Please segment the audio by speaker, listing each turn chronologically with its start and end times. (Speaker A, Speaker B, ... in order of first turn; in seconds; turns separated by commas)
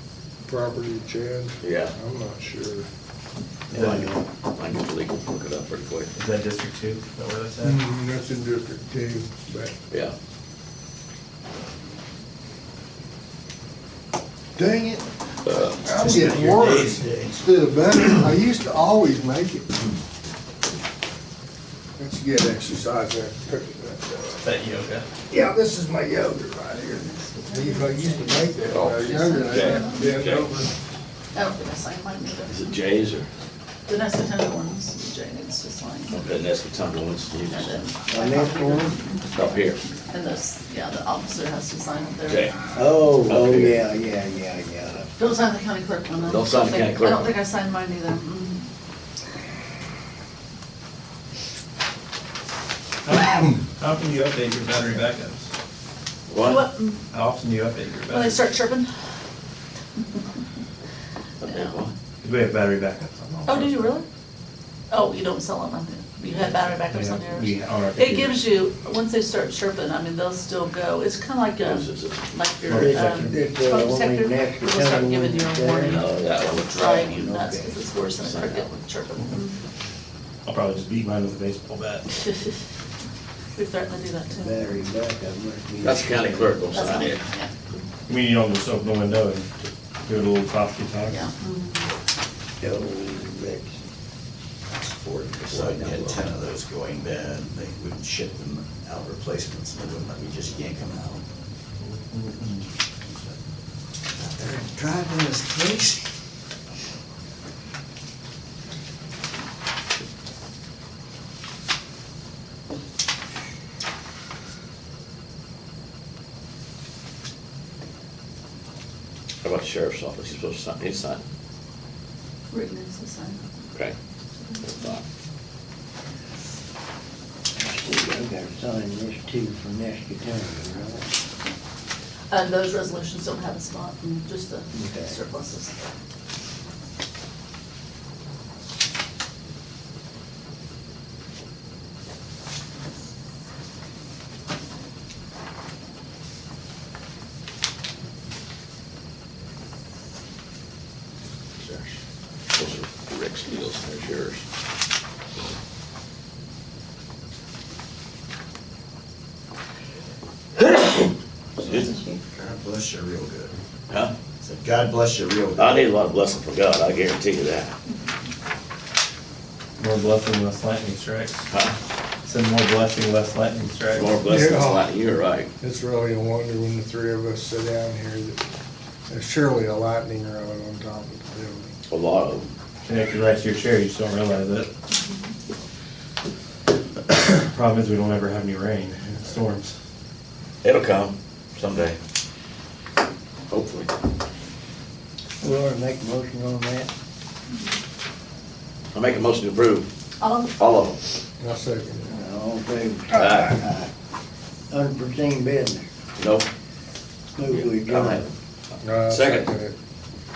Speaker A: 0.4-2.9, Speaker B: 1.6-1.9, Speaker B: 3.7-6.1, Speaker C: 3.7-4.0, Speaker D: 3.8-4.2, Speaker C: 6.1-7.8, Speaker A: 7.6-9.7, Speaker B: 9.9-10.1, Speaker A: 14.6-15.1, Speaker B: 15.4-16.1, Speaker A: 15.8-19.7, Speaker E: 15.9-17.4, Speaker C: 16.2-17.0, Speaker E: 17.9-18.2, Speaker A: 22.0-24.4, Speaker C: 24.4-25.1, Speaker A: 25.3-30.7, Speaker F: 26.8-30.1, Speaker B: 28.7-30.3, Speaker F: 31.3-32.8, Speaker B: 32.5-33.3, Speaker F: 33.9-36.2, Speaker B: 36.1-37.8, Speaker F: 37.4-39.5, Speaker D: 38.1-39.0, Speaker B: 39.3-39.8, Speaker F: 40.1-42.5, Speaker B: 42.2-42.6, Speaker D: 42.7-45.1, Speaker B: 43.2-43.8, Speaker F: 45.2-48.6, Speaker B: 46.2-47.4, Speaker C: 53.0-55.5, Speaker B: 56.3-56.6, Speaker F: 56.4-57.0, Speaker C: 57.1-58.5, Speaker F: 58.1-58.9, Speaker B: 61.4-61.9, Speaker F: 61.4-61.8, Speaker C: 62.2-64.0, Speaker F: 63.5-64.0, Speaker F: 64.9-79.6, Speaker C: 66.8-68.4, Speaker B: 71.6-72.4, Speaker C: 72.7-73.3, Speaker D: 72.7-76.0, Speaker B: 75.8-77.1, Speaker D: 76.9-77.8, Speaker B: 78.2-78.7, Speaker C: 80.4-82.1, Speaker F: 82.2-82.6, Speaker F: 83.5-84.6, Speaker D: 84.3-86.6, Speaker B: 85.8-87.2, Speaker F: 86.7-87.5, Speaker C: 88.1-91.2, Speaker F: 91.1-91.9, Speaker D: 92.6-93.8, Speaker E: 94.7-101.2, Speaker B: 95.3-96.2, Speaker C: 101.8-102.7, Speaker E: 103.0-103.4, Speaker E: 104.1-106.1, Speaker B: 119.4-121.2, Speaker F: 122.5-123.7, Speaker F: 124.3-124.9, Speaker B: 124.6-125.0, Speaker D: 127.6-131.1, Speaker F: 132.3-135.8, Speaker D: 134.7-135.2, Speaker B: 151.6-152.0, Speaker B: 152.5-154.4, Speaker E: 161.6-163.5, Speaker B: 161.6-162.0, Speaker F: 161.7-162.2, Speaker B: 163.9-164.1, Speaker E: 164.4-165.9, Speaker B: 165.6-167.7, Speaker C: 169.8-171.4, Speaker B: 171.5-171.8, Speaker C: 172.2-174.3, Speaker B: 173.9-175.5, Speaker A: 174.2-174.8, Speaker A: 175.6-178.4, Speaker A: 179.1-181.7, Speaker B: 181.9-182.5, Speaker C: 182.8-184.7, Speaker C: 187.3-189.8, Speaker B: 190.6-192.0, Speaker B: 193.5-193.9, Speaker D: 195.4-196.9, Speaker B: 198.9-199.9, Speaker F: 200.2-200.5, Speaker B: 200.5-201.0, Speaker A: 201.4-202.2, Speaker D: 202.1-203.9, Speaker B: 203.1-203.6, Speaker D: 204.7-205.8, Speaker B: 206.2-206.5, Speaker D: 207.3-208.2, Speaker B: 207.4-208.3, Speaker A: 208.8-209.8, Speaker B: 208.9-209.5